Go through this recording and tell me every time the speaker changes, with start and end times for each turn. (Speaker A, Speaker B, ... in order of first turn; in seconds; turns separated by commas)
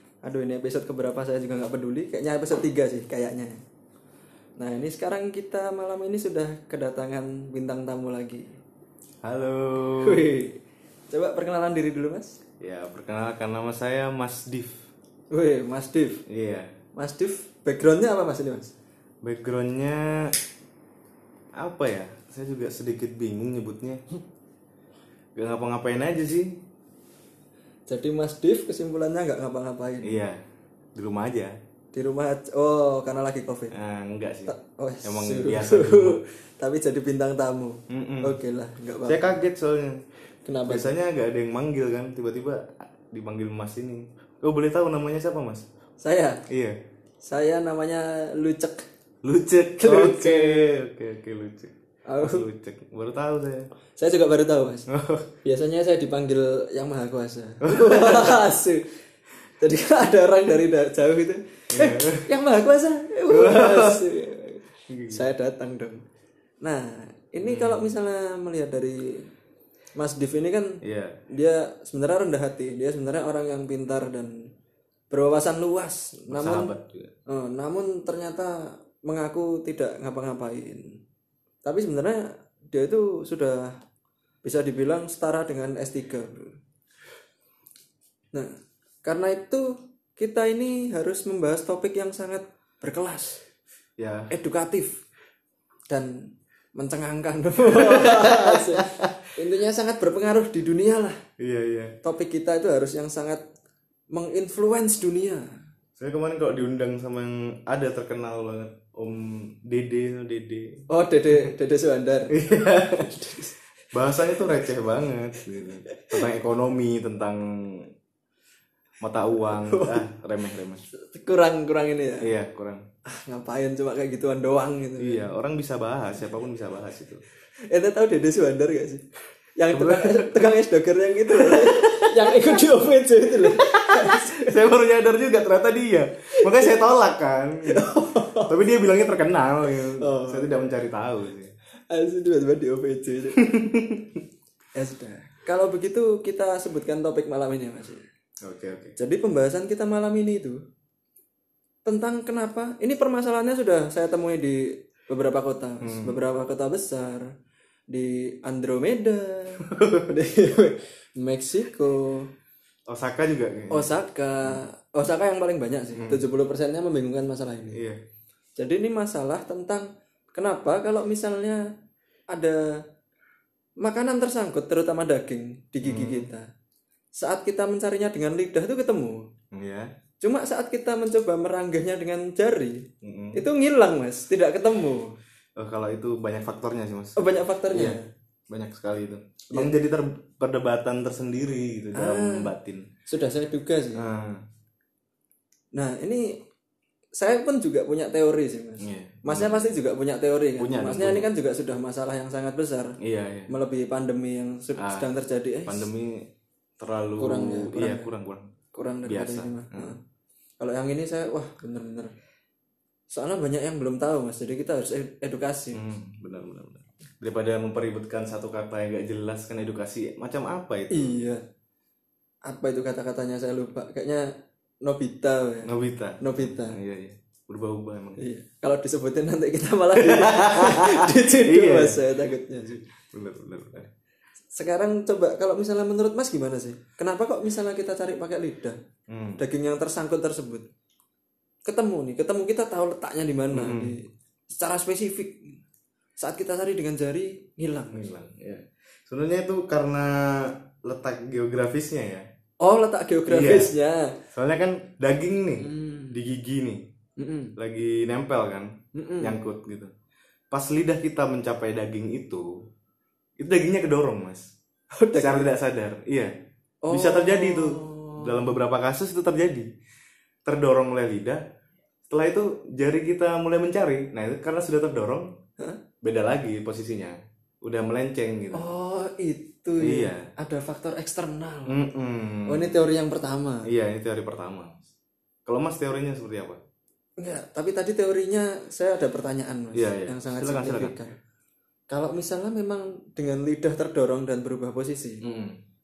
Speaker A: 0.2-3.6, Speaker A: 4.6-8.5, Speaker B: 9.2-10.3, Speaker A: 10.0-10.6, Speaker A: 11.1-12.4, Speaker B: 12.6-14.8, Speaker A: 15.3-16.2, Speaker B: 16.3-16.7, Speaker A: 16.9-18.7, Speaker B: 19.2-20.3, Speaker B: 21.6-24.0, Speaker B: 25.4-26.5, Speaker A: 27.9-30.1, Speaker B: 30.0-30.4, Speaker B: 30.9-31.5, Speaker A: 31.9-33.7, Speaker B: 33.7-36.2, Speaker A: 34.5-39.4, Speaker B: 37.9-38.3, Speaker B: 39.1-40.0, Speaker A: 40.5-40.9, Speaker B: 40.7-45.6, Speaker A: 46.0-46.4, Speaker B: 46.5-46.8, Speaker A: 47.2-48.9, Speaker B: 49.2-53.7, Speaker A: 49.8-50.7, Speaker A: 52.1-52.5, Speaker A: 54.0-54.9, Speaker B: 54.9-55.3, Speaker A: 55.4-58.8, Speaker B: 57.6-58.4, Speaker A: 59.6-66.0, Speaker B: 61.7-62.2, Speaker B: 63.3-64.0, Speaker B: 64.9-65.2, Speaker A: 66.6-69.2, Speaker B: 67.4-67.9, Speaker A: 70.0-70.8, Speaker B: 70.8-71.2, Speaker A: 71.3-74.3, Speaker A: 75.1-76.7, Speaker B: 76.3-77.1, Speaker A: 77.3-81.0, Speaker A: 81.6-83.7, Speaker A: 84.4-86.5, Speaker A: 89.0-93.4, Speaker B: 94.0-94.3, Speaker A: 94.3-95.0, Speaker A: 95.9-101.2, Speaker B: 97.6-99.2, Speaker B: 101.4-101.9, Speaker A: 102.0-103.4, Speaker A: 104.1-105.5, Speaker B: 106.0-110.8, Speaker A: 110.9-113.5, Speaker B: 112.3-113.3, Speaker B: 113.9-117.9, Speaker A: 115.8-116.2, Speaker B: 119.0-120.8, Speaker A: 119.5-120.1, Speaker A: 120.9-122.3, Speaker B: 122.2-122.8, Speaker A: 123.1-125.3, Speaker B: 125.0-127.2, Speaker A: 127.7-129.0, Speaker A: 129.6-134.6, Speaker B: 129.7-130.5, Speaker B: 131.3-132.6, Speaker B: 133.4-137.9, Speaker A: 136.3-136.8, Speaker A: 137.6-138.6, Speaker B: 138.4-141.5, Speaker A: 139.8-140.5, Speaker A: 141.9-143.4, Speaker B: 143.3-144.2, Speaker A: 144.8-148.0, Speaker B: 148.4-149.0, Speaker A: 149.0-150.6, Speaker A: 151.8-157.3, Speaker B: 155.8-156.2, Speaker A: 157.9-162.3, Speaker B: 159.6-160.1, Speaker B: 162.9-164.6, Speaker A: 163.7-167.8, Speaker B: 165.9-166.2, Speaker B: 167.7-168.0, Speaker A: 168.6-171.6, Speaker A: 172.3-172.8, Speaker A: 173.8-176.4, Speaker B: 175.8-176.3, Speaker A: 177.2-179.2, Speaker B: 179.5-179.9, Speaker A: 180.2-185.1, Speaker B: 183.0-183.4, Speaker B: 185.6-192.9, Speaker A: 187.2-188.1, Speaker A: 191.9-192.5, Speaker A: 193.1-194.0, Speaker B: 193.9-194.4, Speaker A: 195.7-196.4, Speaker A: 197.2-202.9, Speaker B: 198.8-199.8, Speaker B: 200.6-201.3, Speaker B: 203.0-203.5, Speaker A: 203.5-205.9, Speaker B: 204.8-205.1, Speaker B: 205.7-206.3, Speaker B: 206.8-208.5, Speaker A: 207.2-208.1, Speaker A: 208.7-210.0, Speaker B: 209.1-209.9, Speaker A: 210.6-212.1, Speaker A: 213.1-215.8, Speaker B: 215.7-221.1, Speaker A: 220.9-221.4, Speaker A: 222.4-224.3, Speaker A: 224.8-225.7, Speaker B: 225.7-228.2, Speaker A: 226.2-226.8, Speaker A: 228.2-232.8, Speaker B: 229.9-232.0, Speaker B: 233.0-233.9, Speaker A: 234.5-238.8, Speaker B: 239.1-239.4, Speaker A: 239.4-240.7, Speaker A: 241.7-245.6, Speaker B: 243.5-243.9, Speaker A: 246.2-248.1, Speaker B: 247.9-252.2, Speaker A: 252.6-254.2, Speaker B: 253.3-253.7, Speaker B: 254.3-256.8, Speaker A: 255.6-256.2, Speaker A: 257.2-257.5, Speaker B: 257.6-259.9, Speaker A: 258.9-259.3, Speaker B: 260.5-262.5, Speaker B: 263.4-264.5, Speaker A: 264.9-265.5, Speaker B: 265.1-266.3, Speaker A: 266.8-268.5, Speaker B: 266.9-269.7, Speaker B: 270.4-271.4, Speaker B: 272.1-275.3, Speaker B: 276.0-278.7, Speaker A: 278.5-281.8, Speaker B: 279.8-280.3, Speaker B: 281.7-282.8, Speaker A: 282.4-283.7, Speaker B: 283.7-284.9, Speaker B: 285.4-286.6, Speaker A: 287.2-291.1, Speaker B: 289.7-291.0, Speaker A: 291.9-295.2, Speaker B: 295.2-295.6